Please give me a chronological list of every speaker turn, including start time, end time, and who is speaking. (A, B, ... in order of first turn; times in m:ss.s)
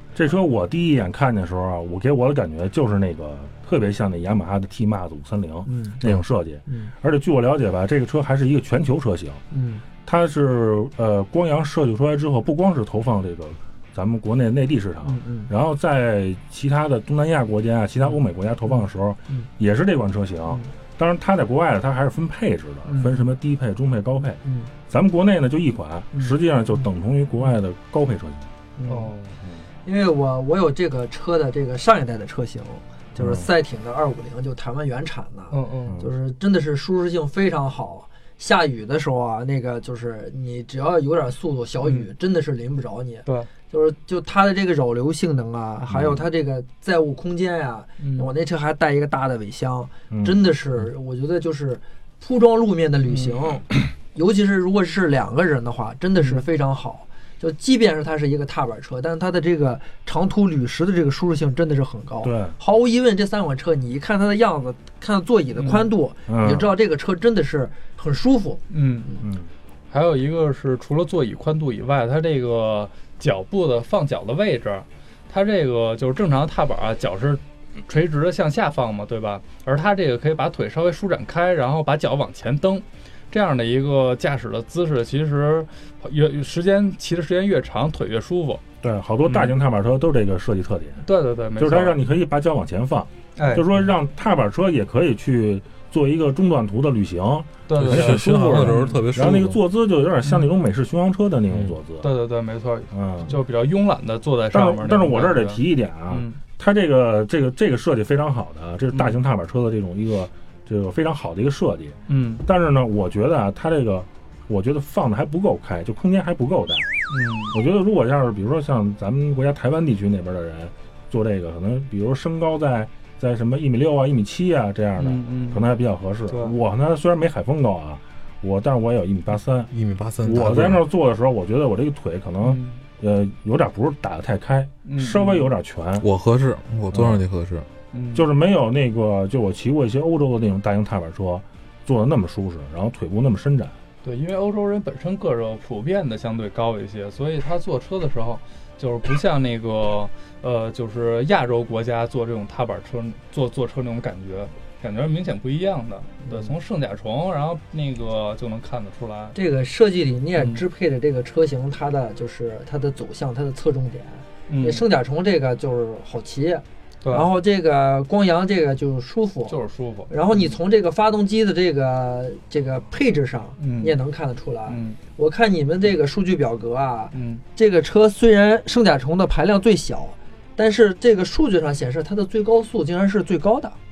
0:00.2-0:09.4 A
0:05.7-0:06.0 B
0:09.5-0:09.8 B
0:10.0-0:28.5 A
0:15.0-0:15.5 B
0:22.9-0:23.3 B
0:24.4-0:24.7 B
0:28.8-0:29.1 B
0:28.9-0:29.4 C
0:29.8-1:09.2 B
0:33.2-0:33.5 A
0:35.5-0:36.0 C
0:41.8-0:42.1 C
0:45.9-0:46.2 A
0:48.0-0:48.3 C
0:50.1-0:50.4 A
1:02.2-1:02.6 A
1:05.6-1:05.9 C
1:06.3-1:06.7 A
1:08.7-1:09.1 C
1:09.2-1:09.5 A
1:09.9-1:28.6 C
1:28.8-1:31.0 A
1:29.3-1:29.6 C
1:31.0-1:32.0 C
1:31.6-1:42.1 A
1:33.4-1:33.9 C
1:37.7-1:39.0 C
1:37.8-1:39.6 D
1:42.0-1:46.4 C
1:42.9-1:43.3 A
1:44.5-1:56.9 A
1:48.9-1:49.2 C
1:52.1-1:52.4 C
1:57.1-1:57.6 C
1:57.5-2:09.7 A
2:05.0-2:05.6 C
2:06.3-2:06.6 C
2:09.7-2:10.8 D
2:10.2-2:16.1 A
2:12.4-2:12.8 C
2:14.8-2:15.5 C
2:16.0-2:17.7 D
2:16.9-2:17.2 A
2:17.9-2:18.3 C
2:18.1-2:23.8 A
2:24.0-2:39.4 C
2:36.2-2:36.5 B
2:39.4-2:49.6 B
2:40.4-2:40.6 C
2:44.5-2:44.8 C
2:47.0-2:47.3 C
2:49.5-2:50.6 C
2:50.1-3:03.8 B
2:53.6-2:54.0 C
2:54.7-2:55.0 C
2:57.1-2:57.4 C